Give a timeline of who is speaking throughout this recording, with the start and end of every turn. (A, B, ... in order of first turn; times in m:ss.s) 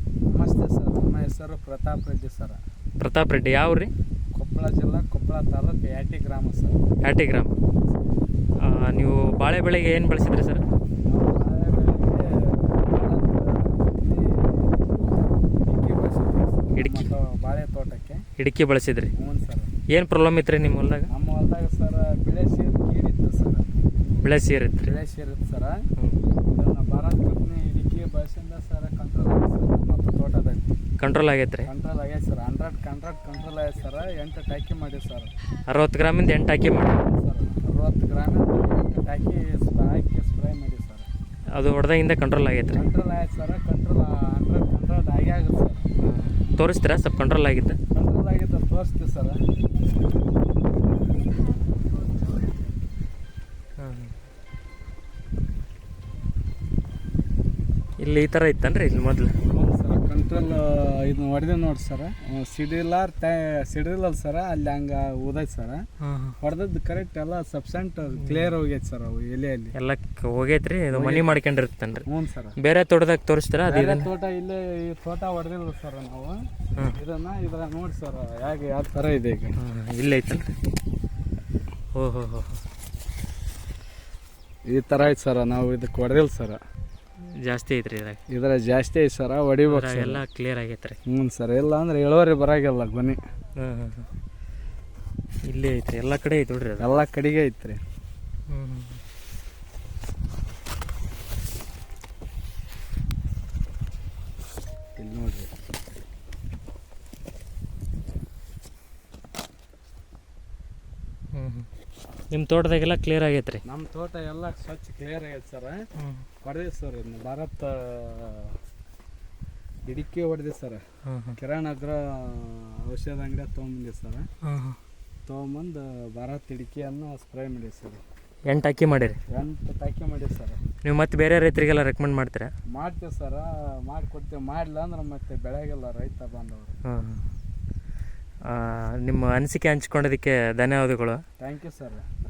0:00.3-0:02.6 A
0:03.0-0:03.9 B
0:04.4-0:06.8 A
0:07.0-0:07.6 B
0:08.6-0:10.6 B
0:11.0-0:15.0 A
0:15.6-0:18.2 A
0:16.7-0:17.1 B
0:18.4-0:19.1 B
0:19.2-0:19.7 A
0:19.9-0:21.1 B
0:21.1-0:23.7 A
0:24.2-0:24.9 B
0:24.8-0:25.8 A
0:26.5-0:30.8 A
0:31.0-0:31.7 B
0:31.7-0:35.3 A
0:35.7-0:37.0 B
0:37.0-0:41.1 A
0:41.6-0:42.8 B
0:42.7-0:45.9 A
0:46.0-0:47.8 B
0:47.9-0:49.4 A
0:53.8-0:54.1 B
0:58.0-0:59.4 B
0:59.5-1:05.8 A
1:06.0-1:06.4 B
1:06.4-1:09.7 A
1:08.2-1:08.5 B
1:09.8-1:12.1 B
1:10.9-1:11.4 A
1:12.1-1:12.6 A
1:12.6-1:14.1 B
1:13.7-1:16.4 A
1:16.9-1:19.6 A
1:19.6-1:20.5 B
1:22.0-1:22.6 B
1:24.7-1:26.6 A
1:27.4-1:28.2 B
1:28.3-1:30.2 A
1:29.7-1:31.0 B
1:31.1-1:33.2 A
1:33.6-1:34.1 B
1:35.5-1:36.9 B
1:36.8-1:37.8 A
1:38.5-1:39.0 B
1:45.0-1:45.5 A
1:51.3-1:51.7 B
1:52.3-1:53.6 B
1:53.6-1:55.8 A
1:56.0-1:56.2 B
1:56.4-1:58.6 A
1:59.9-2:00.8 A
2:01.1-2:01.4 B
2:01.4-2:04.3 A
2:04.4-2:04.8 B
2:05.3-2:08.0 A
2:08.5-2:09.2 B
2:09.3-2:10.6 A
2:10.8-2:12.5 B
2:12.7-2:16.8 A
2:16.9-2:17.2 B
2:18.5-2:21.2 B
2:21.4-2:22.0 A